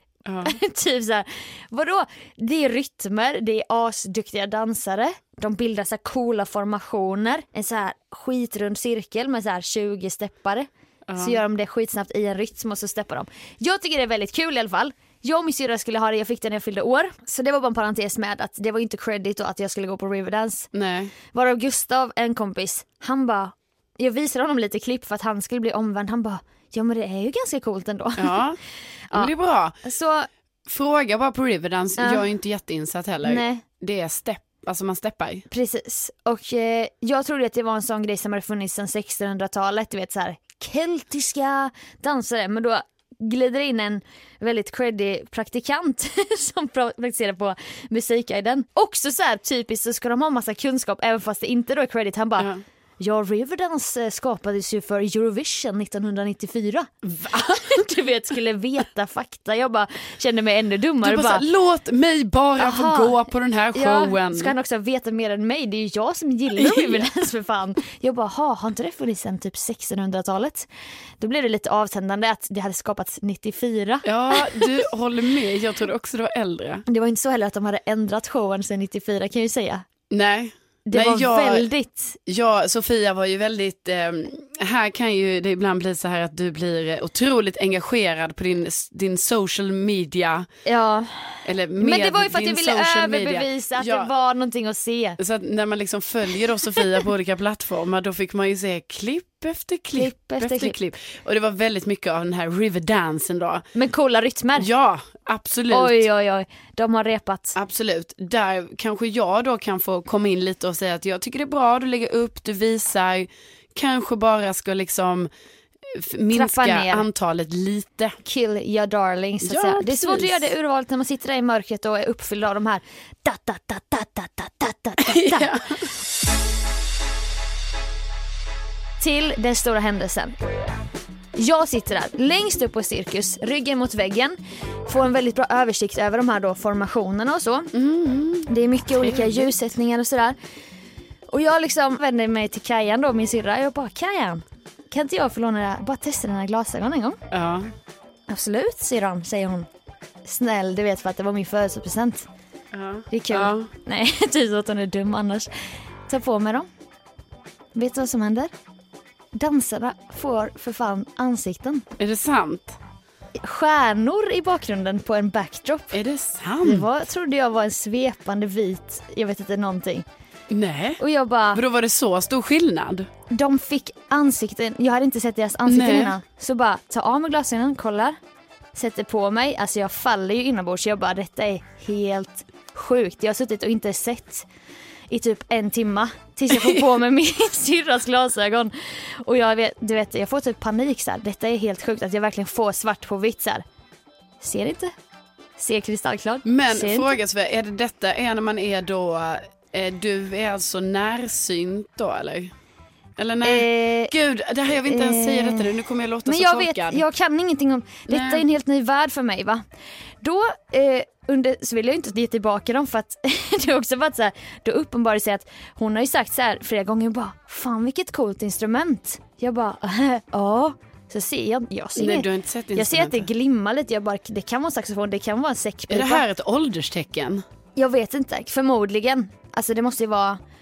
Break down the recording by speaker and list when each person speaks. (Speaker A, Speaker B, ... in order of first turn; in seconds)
Speaker A: 0.2-0.6, 11.1-11.4, 20.7-21.1, 28.2-28.6, 29.1-29.8, 30.7-35.5, 57.0-57.8, 61.0-64.5, 66.5-67.1, 74.0-76.8, 80.1-81.7, 82.3-90.5, 91.4-94.1, 95.2-103.7, 104.6-106.0, 107.5-115.3, 115.9-118.2, 119.4-120.5, 125.0-125.8, 137.7-139.4, 147.3-147.7, 152.7-153.7, 162.0-162.8, 165.9-166.9, 170.5-171.0, 171.5-173.1, 175.7-176.1, 186.5-186.8, 196.4-202.5, 203.2-207.0, 208.1-208.4, 221.9-223.3, 225.9-227.4
Speaker B: 0.4-20.7, 21.3-28.4, 29.8-30.3, 32.0-32.2, 33.2-33.6, 35.5-52.5, 53.0-61.4, 62.6-63.2, 63.7-70.7, 71.2-74.8, 76.8-79.8, 80.9-82.2, 90.7-95.2, 99.9-100.8, 103.7-104.7, 105.7-107.5, 116.3-117.0, 118.2-125.5, 129.0-130.3, 131.3-137.7, 138.5-140.3, 141.3-147.2, 148.3-149.7, 150.2-152.3, 153.1-155.5, 156.1-156.7, 157.7-158.5, 159.3-161.8, 163.4-166.0, 166.6-170.0, 171.0-171.6, 173.3-178.2, 178.7-184.4, 185.1-193.6, 194.4-194.9, 195.6-197.1, 203.4-204.1, 204.8-205.7, 206.2-209.6, 210.2-226.2, 227.8-230.4